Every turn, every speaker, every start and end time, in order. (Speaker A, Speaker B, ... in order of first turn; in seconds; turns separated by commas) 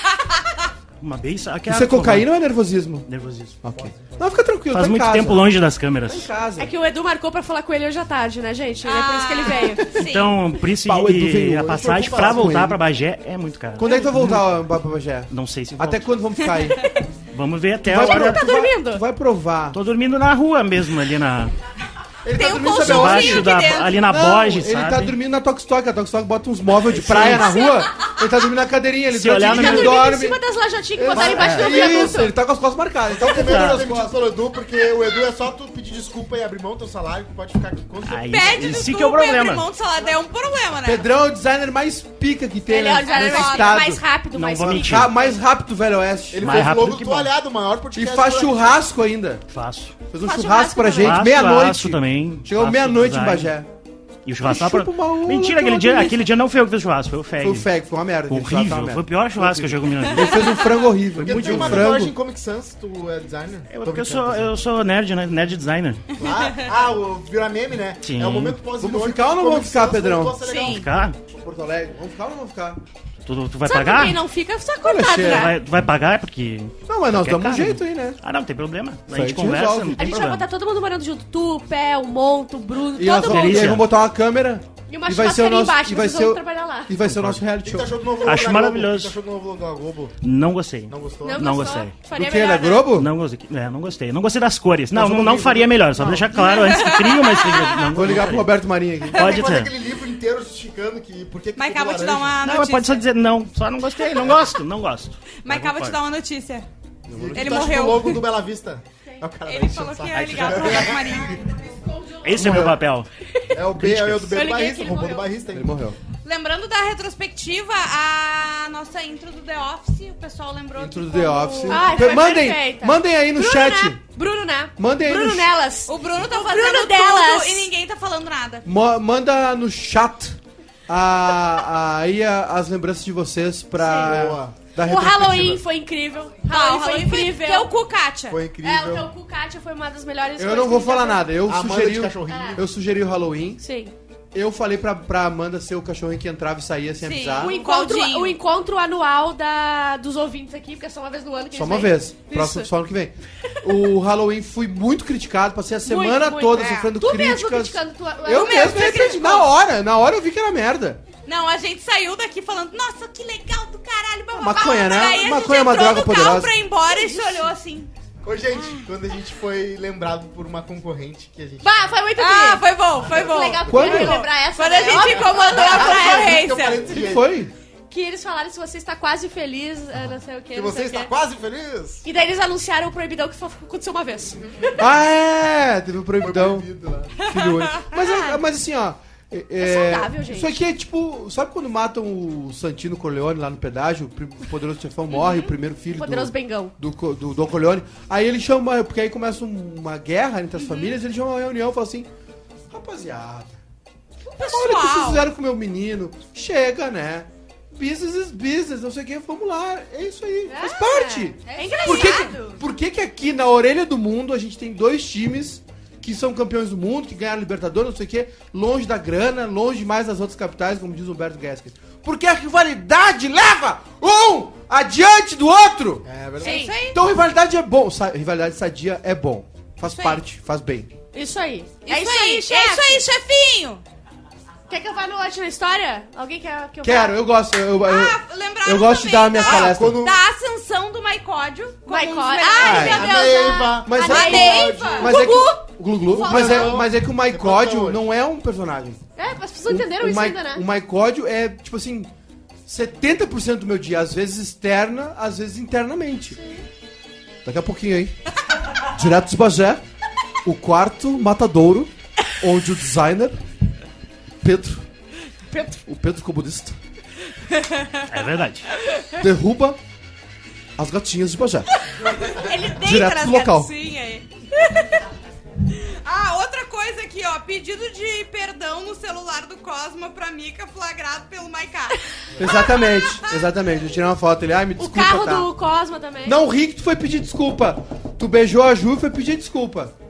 Speaker A: 1.0-2.3, Speaker B: 1.7-3.1, Speaker A: 3.1-3.6, Speaker B: 3.6-5.5, Speaker C: 3.7-4.3, Speaker A: 4.7-6.3, Speaker B: 6.0-6.7, Speaker D: 6.6-10.0, Speaker E: 8.8-10.4, Speaker A: 9.9-14.5, Speaker B: 10.8-12.8, Speaker C: 11.7-12.6, Speaker B: 13.8-16.8, Speaker A: 15.3-16.1, Speaker D: 16.8-17.1, Speaker A: 17.3-18.5, Speaker B: 17.8-19.8, Speaker D: 17.9-19.0, Speaker A: 19.7-21.5, Speaker B: 22.2-30.4, Speaker E: 22.3-24.0, Speaker A: 22.6-25.1, Speaker A: 27.0-27.5, Speaker D: 27.1-27.9, Speaker A: 29.1-30.0, Speaker D: 29.4-32.4, Speaker B: 30.9-34.2, Speaker C: 31.1-32.1, Speaker A: 31.3-31.9, Speaker C: 33.1-38.7, Speaker A: 33.3-33.8, Speaker A: 38.0-39.7, Speaker E: 38.3-41.1, Speaker B: 40.8-44.0, Speaker D: 42.7-45.1, Speaker E: 43.0-43.9, Speaker A: 44.3-45.2, Speaker B: 44.6-46.7, Speaker C: 46.3-48.8, Speaker A: 46.4-47.3, Speaker B: 47.9-49.5, Speaker A: 49.5-50.0, Speaker B: 50.1-53.7, Speaker D: 50.2-51.3, Speaker A: 51.0-53.5, Speaker A: 54.3-57.7, Speaker B: 54.4-56.2, Speaker B: 57.4-62.1, Speaker A: 58.3-62.0, Speaker C: 61.1-64.5, Speaker A: 63.7-66.0, Speaker C: 66.2-70.9, Speaker A: 68.0-68.7, Speaker B: 68.8-70.4, Speaker E: 70.4-70.9, Speaker A: 70.6-71.2, Speaker B: 71.3-72.8, Speaker A: 73.2-74.2, Speaker D: 73.7-75.6, Speaker B: 74.8-75.5, Speaker A: 75.1-80.5, Speaker B: 76.9-78.2, Speaker B: 79.1-80.0, Speaker D: 80.0-83.8, Speaker B: 83.0-88.0, Speaker A: 83.1-83.9, Speaker D: 84.9-86.9, Speaker A: 87.0-87.5, Speaker C: 87.6-90.2, Speaker A: 88.2-89.2, Speaker A: 90.2-92.0, Speaker C: 90.9-91.7, Speaker D: 91.2-92.9, Speaker B: 92.1-93.1, Speaker A: 92.8-98.6, Speaker B: 94.9-96.4, Speaker E: 96.4-97.9, Speaker B: 97.9-99.2, Speaker E: 99.1-99.5, Speaker A: 99.1-99.8, Speaker C: 99.2-102.4, Speaker E: 101.6-103.0, Speaker A: 102.4-106.0, Speaker E: 105.4-106.7, Speaker B: 107.1-107.7, Speaker C: 107.1-111.4, Speaker E: 107.3-108.3, Speaker E: 109.5-111.5, Speaker A: 110.2-110.7, Speaker D: 111.9-112.2, Speaker A: 112.2-113.1, Speaker B: 112.4-112.8, Speaker D: 113.2-113.6, Speaker C: 113.5-115.8, Speaker B: 113.8-114.3, Speaker D: 114.3-115.3, Speaker B: 115.5-116.0, Speaker E: 116.2-122.4, Speaker B: 120.8-124.0, Speaker D: 121.7-127.7, Speaker B: 124.8-125.5, Speaker E: 125.9-128.7, Speaker B: 128.7-135.6, Speaker C: 133.8-134.6, Speaker D: 134.8-137.7, Speaker E: 136.5-138.4, Speaker C: 138.3-139.1, Speaker D: 138.6-141.3, Speaker B: 140.4-143.6, Speaker C: 141.5-142.7, Speaker D: 142.3-142.6, Speaker D: 143.6-143.9, Speaker B: 144.3-147.6, Speaker E: 147.0-148.4, Speaker D: 147.4-152.7, Speaker B: 151.5-161.0, Speaker D: 155.9-159.1, Speaker E: 156.5-156.9, Speaker E: 158.3-159.5, Speaker E: 161.3-167.9, Speaker B: 164.3-166.5, Speaker D: 166.9-167.5, Speaker C: 168.2-171.9, Speaker E: 168.6-168.8, Speaker D: 171.6-176.4, Speaker E: 172.2-176.9, Speaker C: 173.0-173.7, Speaker B: 173.7-174.3, Speaker C: 174.9-177.4, Speaker B: 176.9-177.5, Speaker D: 177.9-181.1, Speaker C: 180.5-182.1, Speaker D: 182.0-184.8, Speaker B: 184.8-202.1, Speaker C: 186.2-187.2, Speaker E: 187.3-187.9, Speaker D: 188.0-188.3, Speaker D: 189.6-190.6, Speaker D: 195.9-196.8, Speaker B: 202.7-203.6, Speaker E: 204.3-205.3, Speaker B: 204.4-226.1, Speaker D: 210.5-212.6, Speaker E: 211.5-212.4, Speaker C: 226.1-226.6, Speaker E: 226.4-227.0, Speaker D: 226.4-226.8, Speaker B: 226.9-230.9, Speaker E: 229.8-230.2, Speaker D: 231.1-233.1, Speaker E: 231.8-233.8, Speaker D: 234.7-237.2, Speaker B: 236.8-240.0, Speaker E: 237.8-243.5, Speaker C: 239.4-240.2, Speaker D: 241.9-246.8, Speaker B: 242.6-243.1, Speaker C: 242.6-245.2, Speaker B: 243.8-249.0, Speaker E: 244.0-245.1, Speaker C: 246.1-248.0, Speaker D: 249.2-250.7, Speaker B: 249.7-252.1, Speaker B: 252.7-256.4, Speaker B: 257.4-258.2, Speaker B: 258.8-259.8, Speaker B: 260.4-263.4, Speaker B: 264.4-264.9, Speaker D: 265.5-265.8, Speaker B: 265.9-266.8, Speaker A: 268.1-268.7, Speaker B: 269.2-269.8, Speaker B: 270.8-271.7, Speaker E: 272.1-274.2, Speaker D: 272.3-272.6, Speaker B: 272.7-273.7, Speaker E: 275.7-283.4, Speaker B: 282.4-285.5, Speaker D: 284.8-286.4, Speaker B: 286.2-289.9